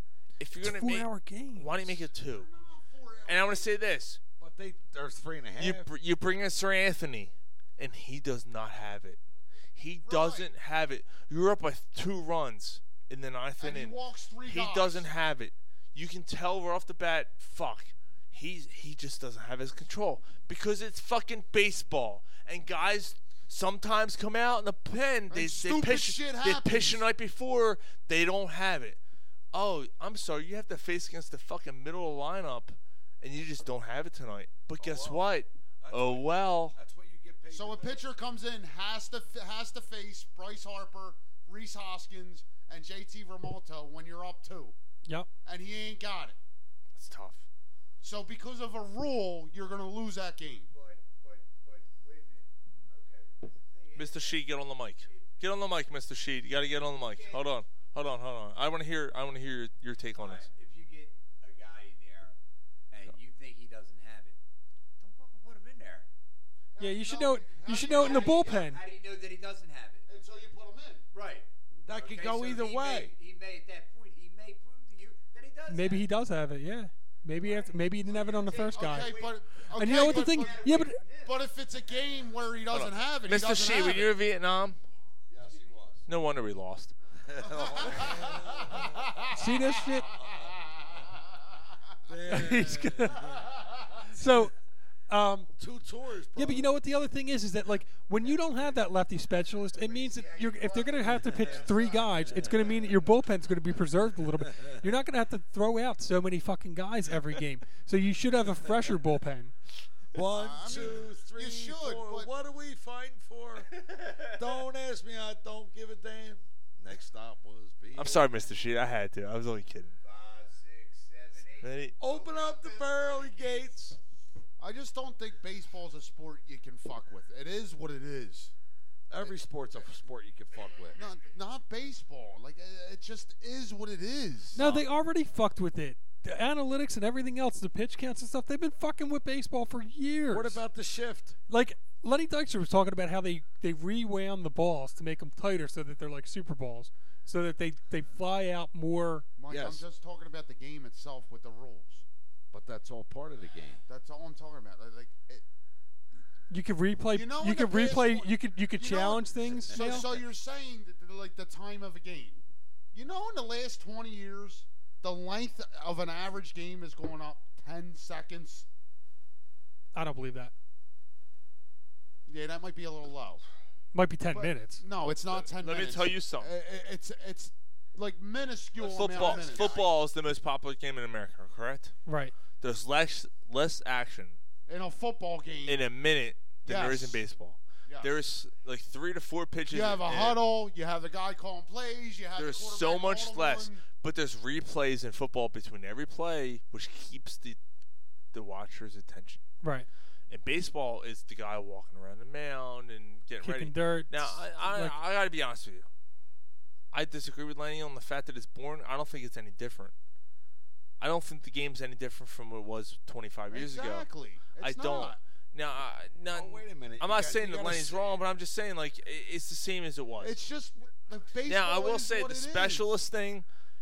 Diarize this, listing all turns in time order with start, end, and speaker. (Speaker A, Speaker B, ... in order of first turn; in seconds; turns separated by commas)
Speaker A: 0.4-2.5, Speaker B: 0.6-1.8, Speaker C: 2.1-3.7, Speaker A: 3.3-4.2, Speaker D: 4.4-5.9, Speaker A: 5.6-9.2, Speaker A: 9.7-29.0, Speaker C: 10.0-10.5, Speaker C: 13.6-15.1, Speaker C: 25.3-27.0, Speaker A: 29.5-36.8, Speaker D: 34.8-35.3, Speaker D: 35.8-38.1, Speaker C: 37.5-44.7, Speaker C: 45.4-46.4, Speaker A: 47.0-47.5, Speaker C: 48.0-50.7, Speaker E: 50.7-56.0, Speaker A: 54.0-60.5, Speaker E: 56.8-57.6, Speaker E: 60.1-62.4, Speaker E: 62.9-64.4, Speaker E: 65.0-66.1, Speaker C: 66.8-68.6, Speaker B: 66.8-68.8, Speaker E: 67.8-70.0, Speaker C: 70.0-71.0, Speaker E: 71.1-76.1, Speaker D: 71.8-73.1, Speaker B: 75.7-79.2, Speaker E: 77.4-82.6, Speaker C: 78.7-84.1, Speaker B: 79.7-81.0, Speaker A: 82.7-84.8, Speaker D: 85.3-86.0, Speaker E: 85.4-85.8, Speaker A: 86.0-86.9, Speaker D: 87.2-89.4, Speaker C: 87.5-91.4, Speaker B: 89.3-90.0, Speaker D: 90.1-90.5, Speaker D: 92.1-93.4, Speaker B: 92.3-93.2, Speaker B: 94.1-94.5, Speaker D: 94.2-94.5, Speaker B: 95.1-95.5, Speaker D: 95.5-96.7, Speaker B: 96.3-109.5, Speaker E: 98.2-98.8, Speaker E: 99.7-103.0, Speaker D: 104.4-104.8, Speaker D: 110.1-118.3, Speaker C: 110.3-112.3, Speaker E: 113.8-114.2, Speaker A: 117.9-119.9, Speaker E: 120.0-123.9, Speaker A: 121.6-122.0, Speaker D: 122.0-124.0, Speaker C: 124.6-128.5, Speaker D: 129.1-131.0, Speaker E: 130.5-131.0, Speaker C: 130.9-134.6, Speaker B: 134.5-140.6, Speaker D: 140.3-141.3, Speaker B: 141.5-149.3, Speaker C: 149.3-152.0, Speaker D: 149.5-149.8, Speaker D: 152.5-153.8, Speaker C: 153.9-155.4, Speaker B: 156.5-160.1, Speaker C: 157.1-162.4, Speaker D: 159.5-160.2, Speaker C: 162.9-168.7, Speaker B: 169.9-170.5, Speaker C: 172.3-173.4, Speaker B: 173.9-174.8, Speaker C: 174.3-179.8, Speaker A: 175.6-176.5, Speaker E: 178.8-179.9, Speaker A: 178.8-181.9, Speaker B: 182.1-182.3, Speaker A: 182.6-184.4, Speaker C: 184.7-185.8, Speaker A: 185.7-190.4, Speaker C: 186.6-187.2, Speaker C: 187.8-188.1, Speaker C: 189.7-193.8, Speaker A: 192.4-197.6, Speaker A: 198.3-199.4, Speaker B: 199.6-199.9, Speaker A: 200.3-205.9, Speaker B: 203.4-204.9, Speaker A: 206.9-209.9, Speaker A: 211.0-220.4, Speaker C: 213.5-215.2, Speaker D: 216.3-218.2, Speaker C: 220.2-222.9, Speaker A: 221.5-223.4